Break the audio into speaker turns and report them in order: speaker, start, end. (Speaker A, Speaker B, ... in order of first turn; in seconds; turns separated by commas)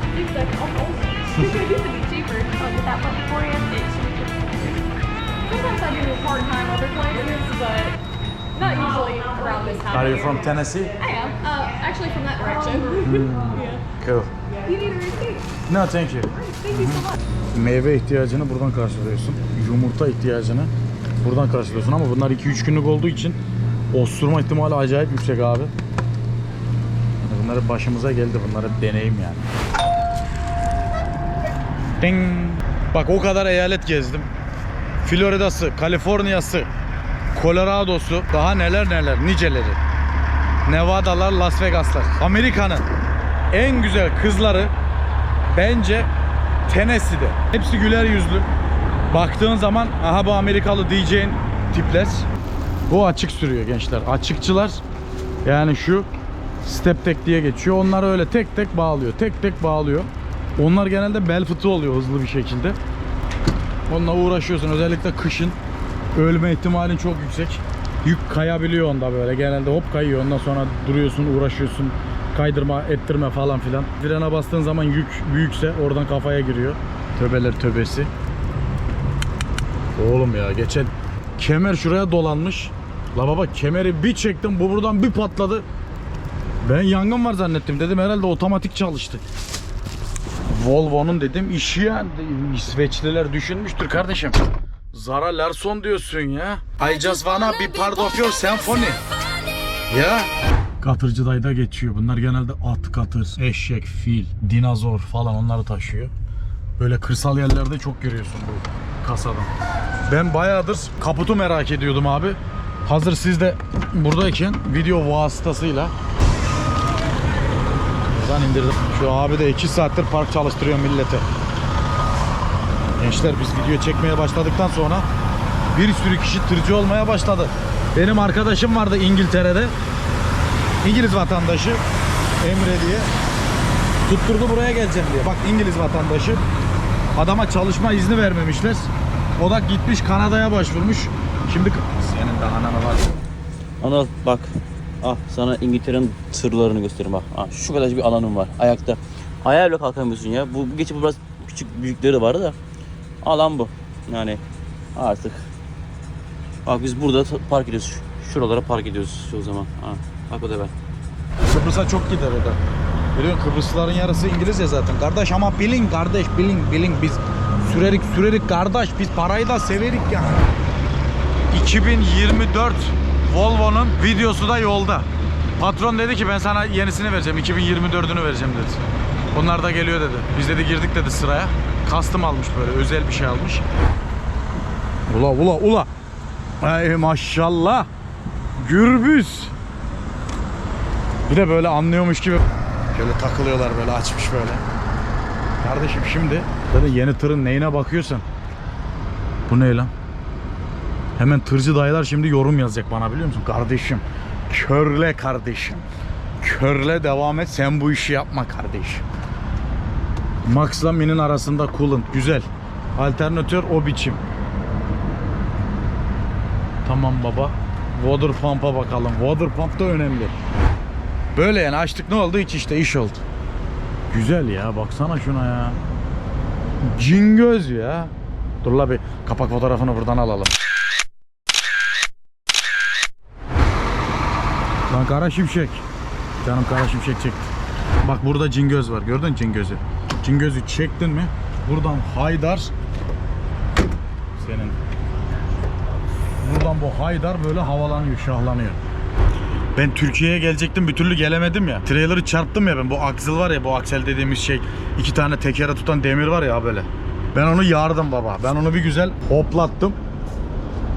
Speaker A: 0.1-4.5, Speaker A: 5.5-8.0, Speaker A: 8.5-10.3, Speaker B: 8.6-9.0, Speaker B: 9.9-10.9, Speaker A: 11.0-13.8, Speaker B: 13.0-14.3, Speaker A: 14.6-15.5, Speaker B: 15.7-23.4, Speaker A: 16.4-17.1, Speaker B: 23.9-25.7, Speaker B: 27.2-29.5, Speaker B: 32.0-34.3, Speaker B: 35.0-36.7, Speaker B: 37.3-39.8, Speaker B: 40.7-42.9, Speaker B: 43.5-44.7, Speaker B: 45.5-46.1, Speaker B: 46.7-48.5, Speaker B: 49.1-52.3, Speaker B: 52.9-54.8, Speaker B: 55.4-56.1, Speaker B: 56.6-62.8, Speaker B: 63.9-65.6, Speaker B: 66.1-78.1, Speaker B: 80.0-85.7, Speaker B: 86.6-89.2, Speaker B: 90.5-94.4, Speaker B: 94.9-99.0, Speaker B: 99.9-100.3, Speaker B: 100.8-106.1, Speaker B: 106.8-109.5, Speaker B: 110.1-115.9, Speaker B: 118.1-121.2, Speaker B: 123.0-125.1, Speaker B: 125.7-129.7, Speaker B: 130.8-131.8, Speaker B: 132.4-133.1, Speaker B: 134.1-136.4, Speaker B: 137.2-143.2, Speaker C: 143.8-152.6, Speaker C: 153.2-154.4, Speaker C: 154.9-155.4, Speaker C: 156.7-160.7, Speaker B: 161.4-162.6, Speaker B: 163.1-170.5, Speaker B: 171.5-183.6, Speaker B: 185.1-185.9, Speaker B: 186.6-187.9, Speaker B: 188.6-189.5, Speaker B: 191.3-194.6, Speaker B: 195.6-198.3, Speaker B: 199.5-199.9, Speaker B: 201.2-205.9, Speaker B: 206.4-209.0, Speaker B: 210.4-214.2, Speaker B: 216.8-220.4, Speaker B: 221.3-223.2, Speaker B: 224.1-225.8, Speaker B: 226.8-230.5, Speaker B: 234.9-235.8, Speaker B: 236.4-242.7, Speaker B: 244.4-244.8, Speaker B: 246.4-248.8, Speaker B: 249.8-260.0